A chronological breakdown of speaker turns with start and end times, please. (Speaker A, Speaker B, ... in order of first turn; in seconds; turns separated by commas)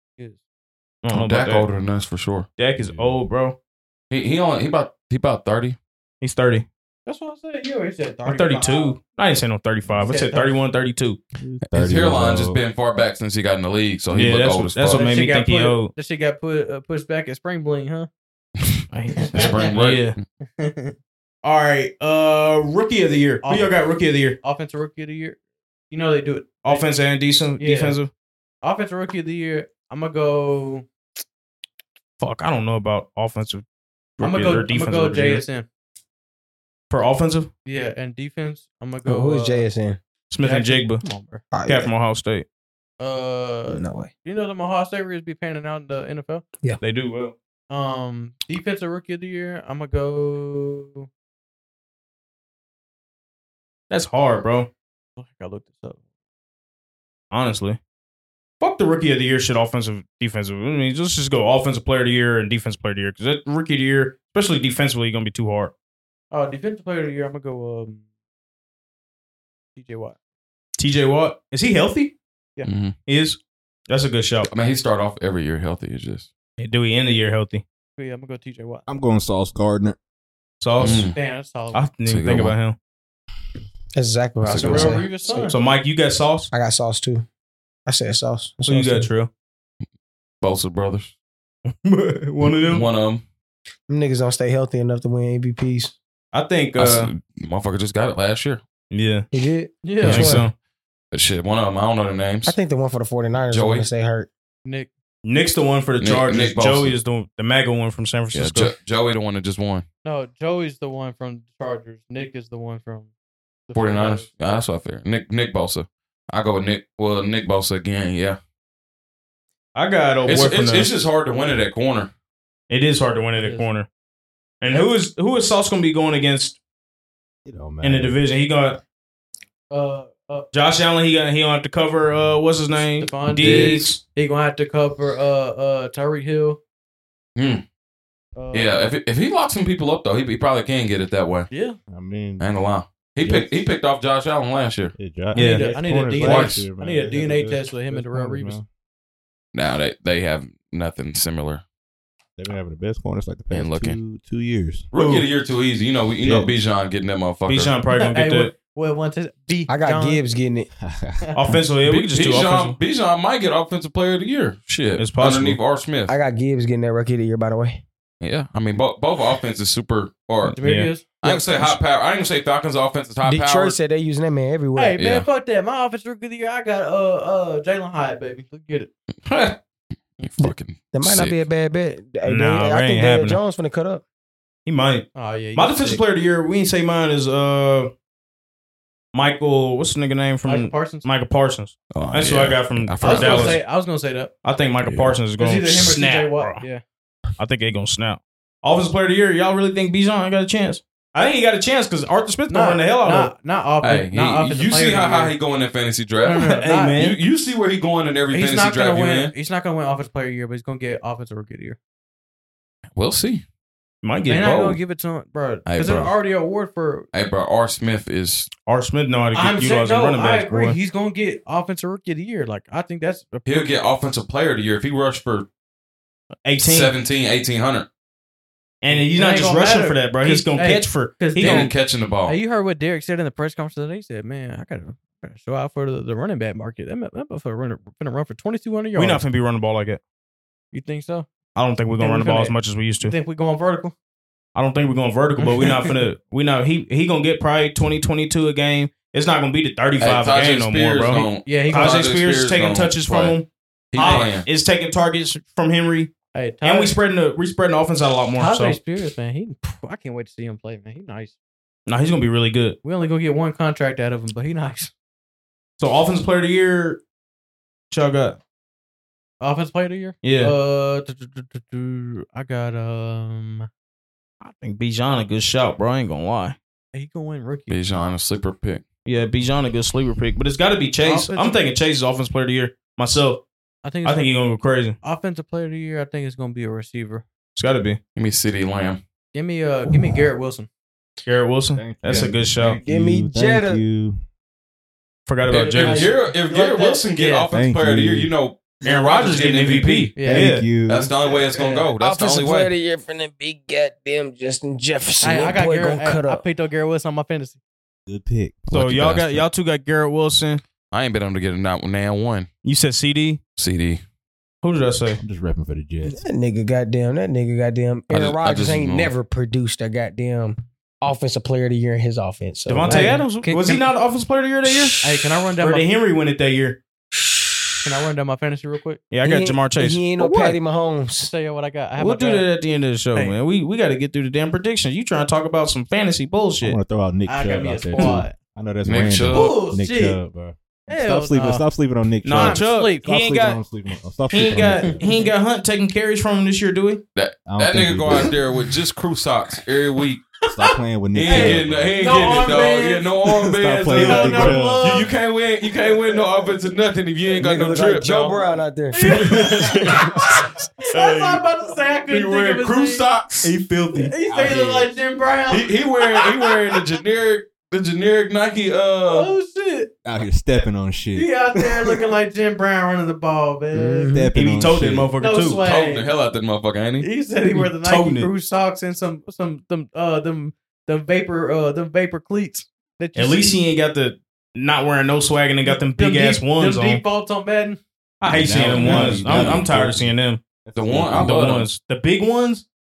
Speaker A: 1.0-1.7, Speaker B: 1.1-2.5, Speaker A: 2.6-3.6, Speaker C: 2.8-3.2, Speaker B: 4.1-5.8, Speaker A: 6.2-6.7, Speaker D: 7.0-8.9, Speaker A: 8.2-11.2, Speaker C: 9.8-10.1, Speaker D: 10.0-10.6, Speaker C: 11.4-12.6, Speaker B: 11.7-15.0, Speaker A: 14.1-15.9, Speaker D: 14.9-18.1, Speaker A: 18.9-20.1, Speaker D: 19.2-19.7, Speaker B: 19.3-20.2, Speaker D: 20.6-20.9, Speaker A: 21.4-24.4, Speaker D: 23.4-25.4, Speaker D: 25.9-26.9, Speaker A: 26.6-28.1, Speaker D: 27.6-28.0, Speaker D: 28.6-30.9, Speaker A: 32.2-33.6, Speaker A: 34.2-35.4, Speaker D: 34.2-35.7, Speaker A: 36.9-37.5, Speaker D: 37.6-39.6, Speaker E: 39.0-40.0, Speaker A: 40.3-41.0, Speaker D: 40.4-41.4, Speaker E: 41.5-41.9, Speaker A: 41.6-42.5, Speaker D: 43.0-46.4, Speaker E: 43.7-44.1, Speaker A: 46.8-47.3, Speaker D: 47.7-51.1, Speaker A: 53.9-54.7, Speaker D: 55.2-56.0, Speaker A: 57.3-57.8, Speaker A: 58.6-65.7, Speaker D: 66.3-68.0, Speaker D: 69.7-70.2, Speaker A: 70.8-72.1, Speaker B: 72.7-73.0, Speaker A: 73.0-74.5, Speaker B: 74.5-76.3, Speaker A: 76.6-77.6, Speaker D: 78.0-78.8, Speaker C: 78.9-80.0, Speaker A: 80.6-81.1, Speaker B: 80.8-81.2, Speaker D: 80.8-81.8, Speaker A: 81.7-82.8, Speaker B: 82.0-82.5, Speaker E: 83.9-85.5, Speaker B: 84.4-85.0, Speaker D: 84.5-85.6, Speaker A: 85.4-86.5, Speaker E: 86.5-87.2, Speaker E: 87.8-89.1, Speaker A: 88.6-89.3, Speaker B: 90.4-91.1, Speaker A: 91.7-92.9, Speaker B: 92.6-93.2, Speaker E: 93.9-95.9, Speaker A: 96.3-97.1, Speaker B: 96.8-98.6, Speaker A: 98.9-99.3, Speaker E: 99.3-100.5, Speaker D: 99.8-100.4, Speaker A: 100.0-100.5, Speaker B: 101.1-102.6, Speaker E: 102.4-104.3, Speaker B: 103.5-103.9, Speaker D: 104.6-104.9, Speaker A: 105.2-108.7, Speaker B: 106.0-106.9, Speaker B: 108.3-109.8, Speaker D: 110.0-113.1, Speaker D: 113.7-114.6, Speaker B: 113.7-118.4, Speaker A: 119.7-120.9, Speaker B: 120.2-122.1, Speaker A: 122.7-123.9, Speaker D: 123.3-123.7, Speaker A: 124.6-126.6, Speaker C: 127.4-128.2, Speaker A: 127.8-128.8, Speaker D: 129.7-130.4, Speaker A: 130.5-134.0, Speaker D: 133.0-136.6, Speaker B: 133.4-133.8, Speaker B: 137.3-137.6, Speaker D: 138.3-138.9, Speaker B: 138.5-141.5, Speaker D: 141.5-141.8, Speaker C: 141.9-142.4, Speaker B: 142.4-144.9, Speaker C: 143.2-143.6, Speaker C: 144.9-148.7, Speaker D: 145.3-148.6, Speaker A: 145.3-145.7, Speaker B: 146.2-146.6, Speaker B: 149.5-151.6, Speaker C: 152.4-154.9, Speaker B: 153.5-154.0, Speaker B: 154.9-157.7, Speaker A: 154.9-155.2, Speaker C: 156.2-156.6, Speaker A: 157.5-158.5, Speaker D: 157.9-160.2, Speaker E: 159.7-160.7, Speaker C: 160.8-161.3, Speaker A: 161.3-162.8, Speaker B: 161.8-166.1, Speaker A: 165.0-165.6, Speaker E: 166.1-167.8, Speaker B: 168.2-170.6, Speaker D: 170.5-171.4, Speaker A: 170.6-170.9, Speaker B: 171.2-173.8, Speaker E: 173.2-175.0, Speaker D: 174.7-178.9, Speaker B: 175.0-175.2, Speaker A: 179.3-179.6, Speaker B: 180.2-181.4, Speaker E: 180.4-184.0, Speaker A: 182.2-183.4, Speaker A: 184.7-187.9, Speaker D: 185.1-186.0, Speaker A: 189.1-193.6, Speaker D: 190.4-191.1, Speaker B: 191.9-193.6, Speaker D: 193.0-194.3, Speaker A: 194.4-196.6, Speaker B: 194.8-195.2, Speaker D: 195.4-196.8, Speaker A: 197.4-203.3, Speaker D: 202.5-205.3, Speaker B: 203.8-209.3, Speaker D: 206.2-207.0, Speaker A: 206.3-207.2, Speaker D: 208.3-211.8, Speaker B: 212.9-213.4, Speaker A: 214.0-214.8, Speaker D: 214.3-217.1, Speaker B: 215.7-216.1, Speaker B: 217.1-218.5, Speaker A: 218.7-220.8, Speaker D: 219.3-223.7, Speaker B: 223.4-225.5, Speaker A: 226.4-226.9, Speaker B: 226.6-227.9, Speaker A: 228.8-231.7, Speaker D: 228.9-239.2, Speaker B: 231.3-232.4, Speaker A: 238.9-240.0, Speaker D: 240.7-241.3, Speaker A: 241.5-243.1, Speaker D: 241.9-243.9, Speaker A: 244.5-258.8, Speaker D: 245.4-245.9, Speaker B: 250.0-253.4, Speaker D: 251.4-252.1, Speaker B: 253.9-254.5, Speaker D: 254.0-254.3, Speaker D: 256.3-257.0, Speaker D: 258.4-261.4, Speaker A: 261.9-262.8, Speaker D: 262.8-264.9, Speaker A: 265.8-267.0, Speaker A: 267.9-268.4, Speaker D: 269.4-273.7, Speaker A: 270.2-270.5, Speaker A: 274.4-276.6, Speaker D: 276.9-277.8, Speaker B: 277.7-278.8, Speaker A: 279.1-283.4, Speaker D: 281.0-281.6, Speaker D: 283.8-284.2, Speaker A: 284.0-284.9, Speaker D: 285.0-287.2, Speaker A: 287.6-288.0, Speaker B: 288.1-289.0, Speaker D: 289.3-290.7, Speaker A: 291.2-292.8, Speaker C: 291.7-294.2, Speaker D: 292.0-292.3, Speaker E: 292.8-293.8, Speaker A: 295.2-296.1, Speaker B: 295.5-300.2, Speaker D: 295.5-297.5, Speaker C: 297.5-298.3, Speaker A: 298.8-300.7, Speaker D: 300.1-300.5, Speaker C: 300.2-301.1, Speaker B: 300.9-302.7, Speaker D: 301.3-301.9, Speaker E: 302.0-306.4, Speaker D: 305.2-307.6, Speaker C: 308.1-308.7, Speaker B: 308.7-309.4, Speaker A: 308.7-310.6, Speaker B: 310.9-312.5, Speaker A: 312.6-313.4, Speaker B: 313.6-314.0, Speaker A: 314.6-315.2, Speaker C: 315.2-316.2, Speaker E: 316.0-323.2, Speaker B: 318.1-319.1, Speaker A: 322.7-325.0, Speaker D: 322.9-323.9, Speaker D: 325.0-325.9, Speaker A: 325.6-326.8, Speaker E: 327.2-327.5, Speaker D: 327.8-329.0, Speaker A: 329.1-330.6, Speaker E: 329.2-331.3, Speaker D: 331.2-332.5, Speaker A: 332.0-336.8, Speaker C: 336.6-345.1, Speaker D: 337.2-338.3, Speaker B: 338.8-339.5, Speaker D: 339.3-340.2, Speaker D: 340.9-341.6, Speaker A: 342.2-343.6, Speaker D: 342.3-343.1, Speaker A: 344.3-347.0, Speaker D: 344.8-345.3, Speaker B: 347.1-350.3, Speaker C: 347.4-348.4, Speaker C: 350.5-352.7, Speaker B: 351.1-358.4, Speaker D: 351.2-353.1, Speaker C: 353.5-355.0, Speaker A: 353.9-354.8, Speaker D: 353.9-355.1, Speaker D: 355.9-356.2, Speaker E: 357.3-360.4, Speaker D: 358.9-360.0, Speaker D: 360.8-363.0, Speaker B: 360.9-361.4, Speaker B: 362.1-363.5, Speaker A: 363.4-364.1, Speaker D: 363.9-366.7, Speaker C: 364.2-364.9, Speaker B: 365.5-369.3, Speaker D: 369.1-369.9, Speaker C: 370.0-372.0, Speaker D: 371.1-374.1, Speaker E: 373.7-374.3, Speaker C: 374.1-375.1, Speaker A: 374.3-375.6, Speaker D: 375.2-376.1, Speaker B: 375.6-377.1, Speaker D: 377.0-383.6, Speaker A: 377.5-378.3, Speaker A: 383.1-387.0, Speaker D: 385.6-387.8, Speaker A: 388.2-390.4, Speaker C: 388.2-391.5, Speaker D: 388.5-389.3, Speaker B: 389.3-389.6, Speaker B: 390.7-391.7, Speaker A: 391.1-392.6